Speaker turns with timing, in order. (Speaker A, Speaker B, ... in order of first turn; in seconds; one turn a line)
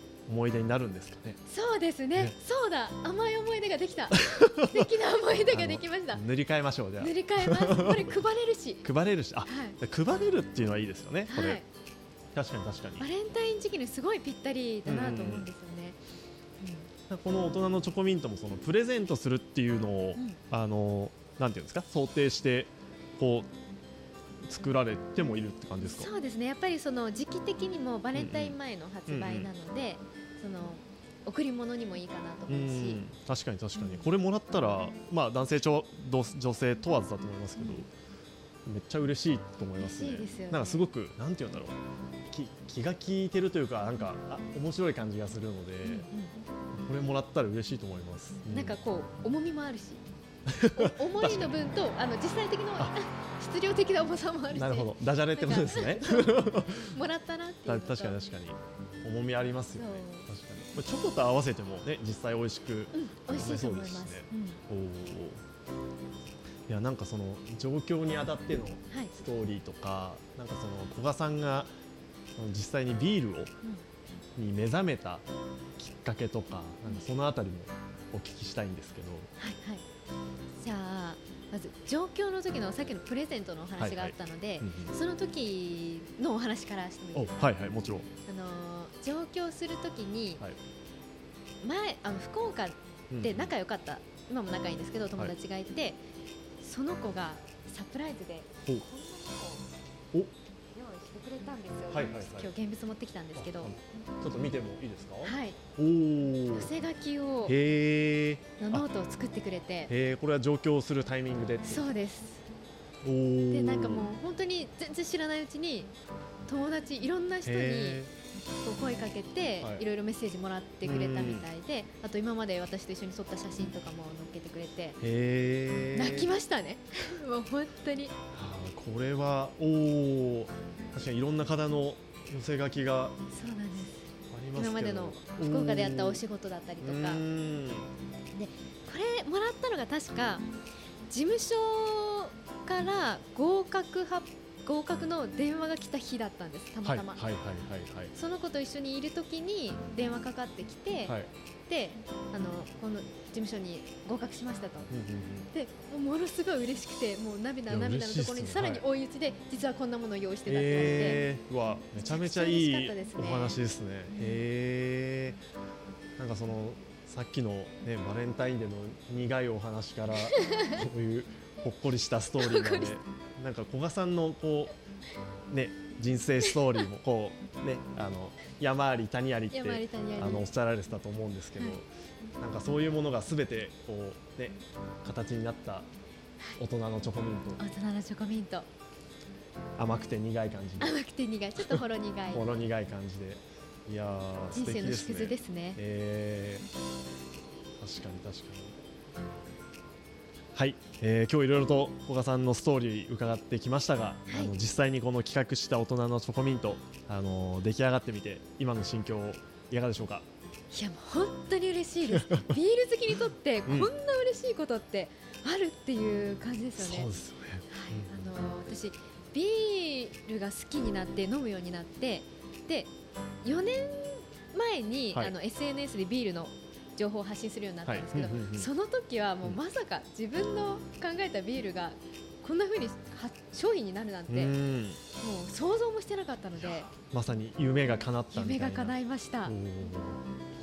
Speaker A: 0.3-1.4
Speaker B: 1.5-6.2
Speaker A: 4.1-4.9
Speaker A: 5.5-8.2
Speaker B: 7.0-8.9
Speaker A: 8.8-11.6
Speaker B: 9.4-9.8
Speaker B: 11.3-11.6
Speaker A: 12.3-13.1
Speaker B: 13.0-16.0
Speaker A: 14.8-15.5
Speaker B: 16.6-16.9
Speaker A: 17.1-23.5
Speaker A: 24.4-26.1
Speaker B: 25.8-33.0
Speaker A: 28.1-28.6
Speaker A: 29.1-29.5
Speaker A: 32.5-37.9
Speaker B: 33.8-34.0
Speaker A: 38.6-41.8
Speaker B: 39.8-40.8
Speaker A: 42.3-46.1
Speaker B: 45.8-46.4
Speaker A: 46.7-48.8
Speaker B: 48.5-50.0
Speaker A: 50.5-51.7
Speaker B: 50.7-58.2
Speaker A: 54.5-57.0
Speaker A: 57.6-65.4
Speaker B: 59.8-60.3
Speaker B: 62.9-64.6
Speaker A: 66.7-71.7
Speaker A: 72.4-73.5
Speaker A: 74.4-75.2
Speaker A: 75.8-79.3
Speaker B: 79.4-79.8
Speaker B: 80.6-87.5
Speaker A: 83.8-84.9
Speaker A: 87.1-88.1
Speaker B: 88.2-90.4
Speaker B: 91.6-96.0
Speaker A: 93.1-93.5
Speaker B: 96.6-99.7
Speaker B: 100.7-103.7
Speaker A: 101.9-102.5
Speaker A: 103.4-106.7
Speaker B: 105.2-105.6
Speaker B: 106.5-107.6
Speaker A: 107.5-108.8
Speaker B: 108.6-109.9
Speaker A: 109.9-111.9
Speaker B: 111.6-112.4
Speaker A: 113.0-114.1
Speaker B: 113.5-115.9
Speaker B: 116.5-118.0
Speaker A: 117.4-118.1
Speaker B: 118.6-125.0
Speaker A: 120.8-121.5
Speaker A: 125.0-126.3
Speaker B: 125.9-128.1
Speaker A: 128.3-133.2
Speaker B: 133.3-137.2
Speaker A: 134.3-136.2
Speaker A: 136.8-137.9
Speaker B: 138.3-140.4
Speaker B: 141.1-147.3
Speaker A: 146.8-148.1
Speaker B: 148.1-151.2
Speaker B: 151.7-154.9
Speaker A: 154.9-155.5
Speaker B: 155.5-161.2
Speaker A: 157.7-158.8
Speaker A: 160.5-165.4
Speaker B: 161.9-163.6
Speaker B: 164.1-164.4
Speaker A: 166.2-174.7
Speaker B: 170.3-170.8
Speaker B: 172.4-173.0
Speaker A: 175.5-181.9
Speaker B: 179.5-180.5
Speaker A: 182.4-185.9
Speaker A: 186.6-187.6
Speaker B: 187.6-188.7
Speaker A: 189.8-191.0
Speaker B: 190.8-192.4
Speaker A: 191.6-196.7
Speaker B: 194.5-195.8
Speaker A: 197.8-198.8
Speaker A: 200.5-210.3
Speaker B: 204.3-204.5
Speaker B: 210.7-217.1
Speaker A: 212.1-212.6
Speaker A: 213.7-213.9
Speaker A: 216.8-218.3
Speaker B: 217.7-222.9
Speaker B: 223.4-234.6
Speaker A: 227.9-228.7
Speaker A: 234.3-235.0
Speaker B: 235.2-236.9
Speaker A: 236.6-238.9
Speaker B: 238.3-239.6
Speaker A: 239.4-240.3